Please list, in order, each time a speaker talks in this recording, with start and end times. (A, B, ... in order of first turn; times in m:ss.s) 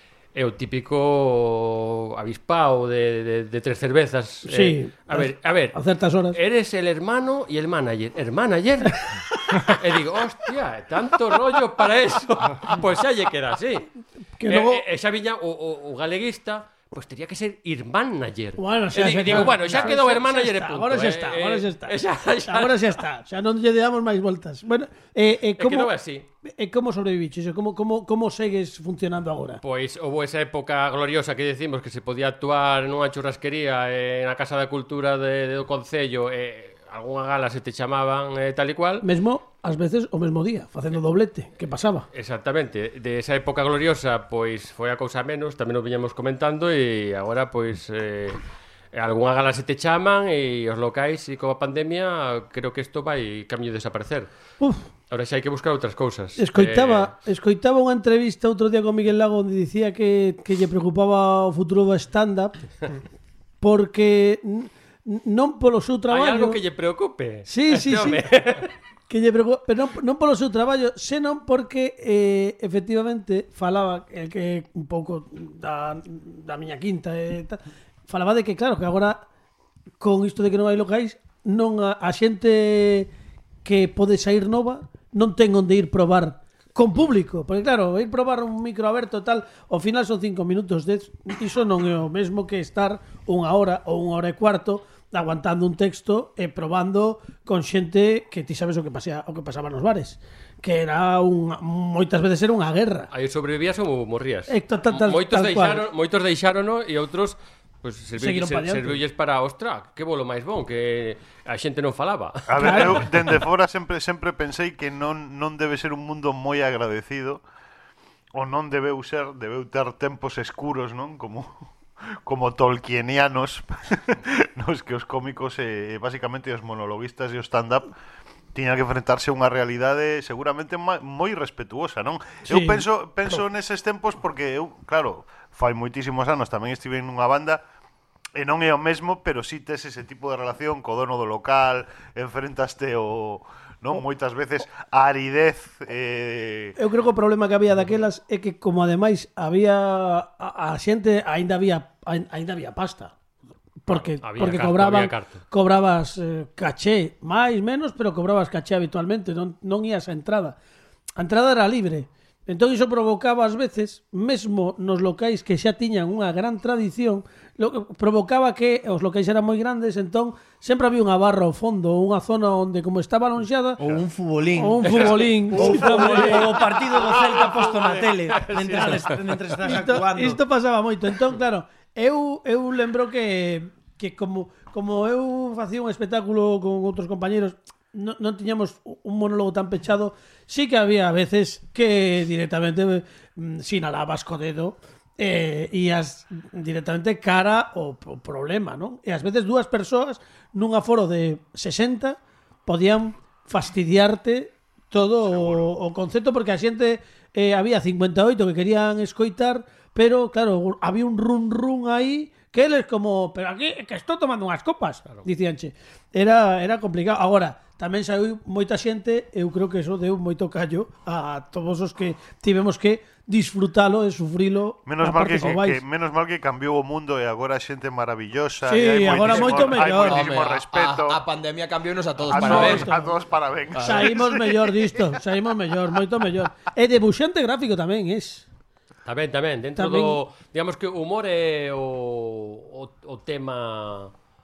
0:00.4-0:05.8 A
0:04.4-0:06.4 B
0:06.3-0:13.9 A
0:14.4-0:14.8 B
0:14.5-0:23.0 A
0:18.6-0:25.9 B
0:25.6-0:26.3 A
0:26.4-0:29.6 B
0:29.6-0:39.0 A
0:39.0-0:42.1 B
0:42.1-0:48.4 A
0:48.9-0:54.3 A
0:54.6-0:54.9 B
0:55.1-0:57.1 A
0:56.4-1:02.6 B
1:03.6-1:06.6 B
1:06.1-1:08.7 A
1:07.5-1:19.2 B
1:20.0-1:23.1 B
1:23.6-1:43.1 B
1:43.1-1:53.0 A
1:44.5-1:45.8 B
1:48.2-1:49.0 B
1:52.5-1:57.4 C
1:52.6-1:53.0 B
1:58.3-2:01.6 C
2:02.2-2:07.9 C
2:08.5-2:17.6 C
2:12.5-2:13.4 B
2:18.4-2:26.8 C
2:26.8-2:33.1 B
2:33.8-2:40.6 B
2:33.9-2:35.4 A
2:41.2-2:53.8 B
2:53.8-3:00.4 D
2:54.6-2:56.7 B
2:57.1-2:59.2 A
2:58.7-2:59.1 B
2:59.6-3:45.8 B
3:25.2-3:25.7 C
3:44.9-3:51.2 C
3:48.7-3:50.3 B
3:49.3-3:52.9 E
3:52.3-3:55.2 C
3:52.3-3:53.1 B
3:53.8-3:54.1 E
3:53.8-3:58.5 B
3:59.1-4:04.1 A
3:59.8-4:00.2 B